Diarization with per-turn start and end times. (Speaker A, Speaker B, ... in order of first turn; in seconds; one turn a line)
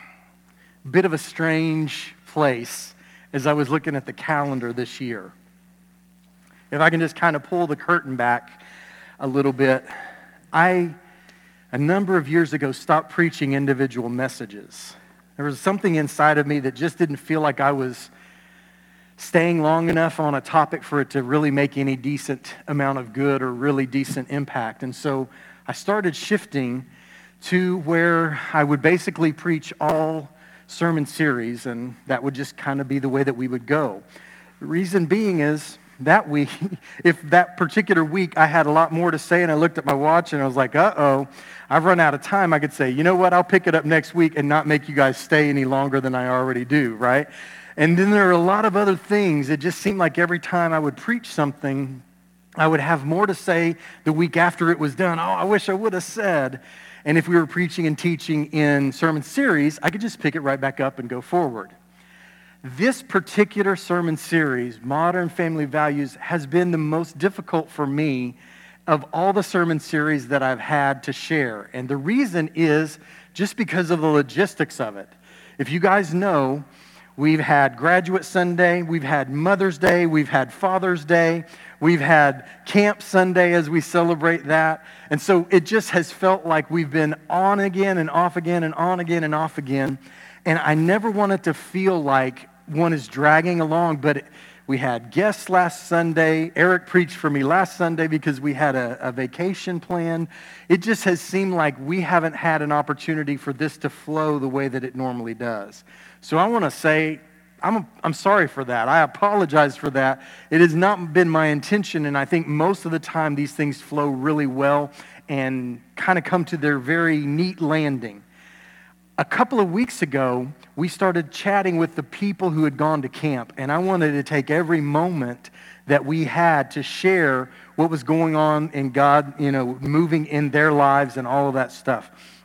Speaker A: 0.8-5.3
Speaker A: 6.7-8.6
Speaker A: 9.2-9.9
Speaker A: 10.5-10.9
Speaker A: 11.7-18.1
Speaker A: 19.2-26.9
Speaker A: 27.4-34.0
Speaker A: 34.6-52.0
Speaker A: 52.6-61.7
Speaker A: 62.6-76.7
Speaker A: 77.2-118.2
Speaker A: 119.2-132.1